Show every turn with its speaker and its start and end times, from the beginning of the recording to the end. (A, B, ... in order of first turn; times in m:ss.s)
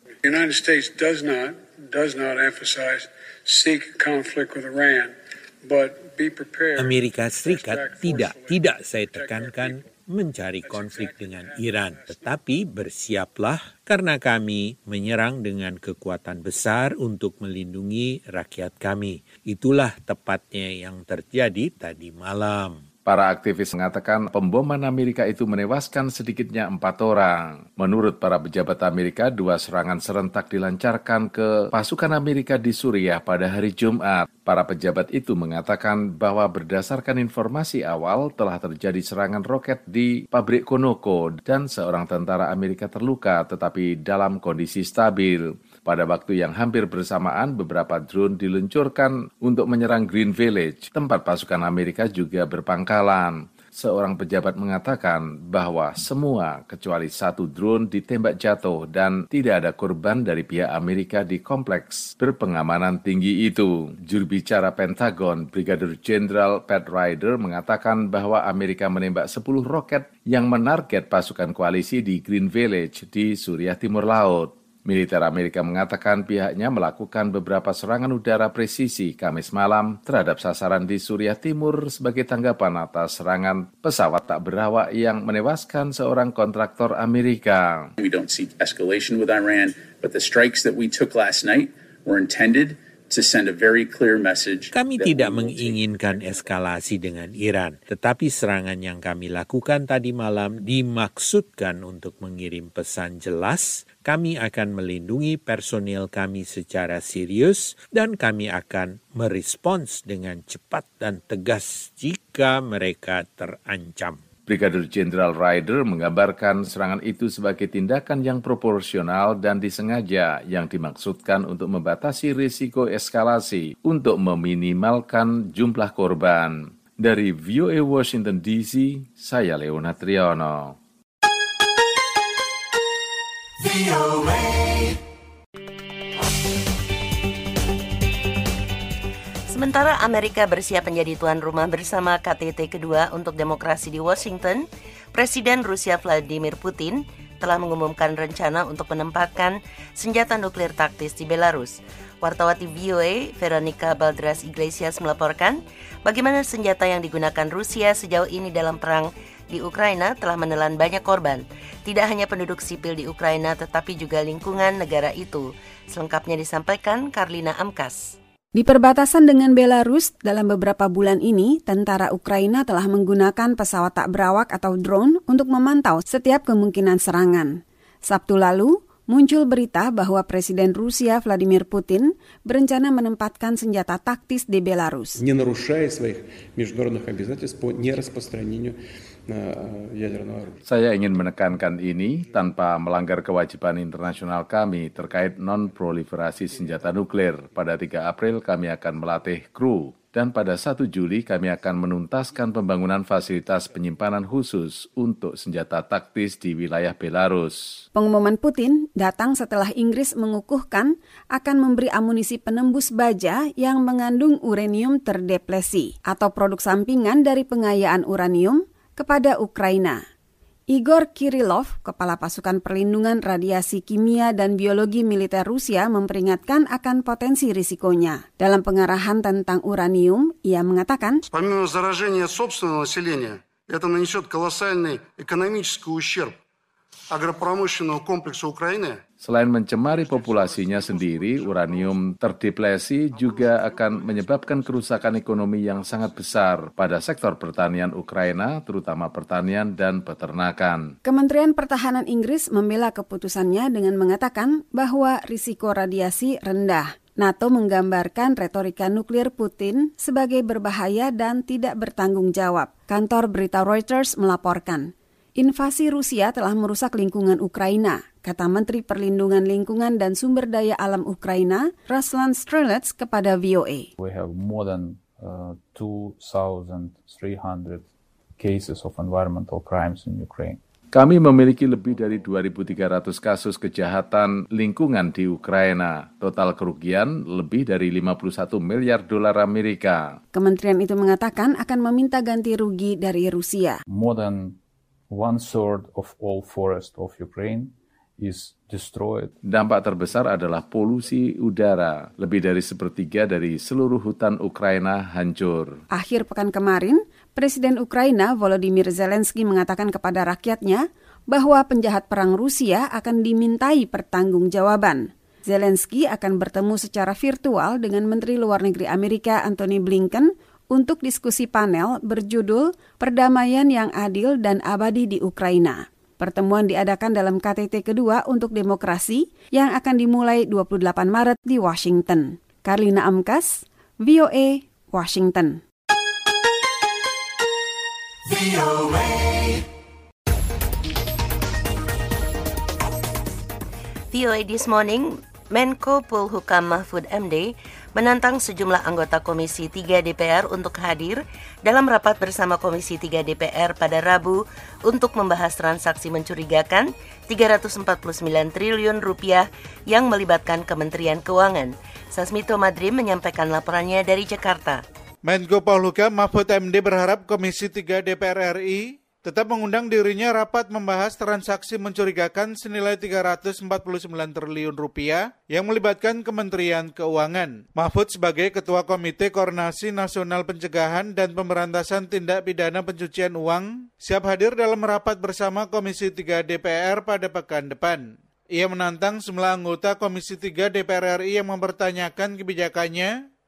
0:00.2-0:09.9 A
0:06.8-0:22.8 B
0:10.6-0:12.4 A
0:23.1-1:27.9 C
1:28.0-1:35.8 D
1:34.7-1:54.2 B
1:54.5-2:10.8 C
2:19.5-2:48.2 E
2:48.5-3:05.2 F
3:05.2-3:08.8 G
3:09.3-3:10.6 G
3:10.7-3:27.8 C
3:28.0-3:40.0 F
3:40.7-3:51.2 F
3:51.3-3:56.4 H
3:57.1-3:59.0 H
3:59.2-4:10.9 C
3:59.9-4:02.2 H
4:03.1-4:05.3 H
4:11.0-4:33.9 F
4:34.0-4:40.6 I
4:40.9-4:50.2 C
4:50.3-4:53.8 F
4:53.9-4:54.6 I
4:55.1-4:59.3 I
4:59.4-5:05.8 C
5:05.9-5:35.6 F
5:44.1-6:04.8 E
6:05.2-6:28.0 J
6:28.6-6:33.1 J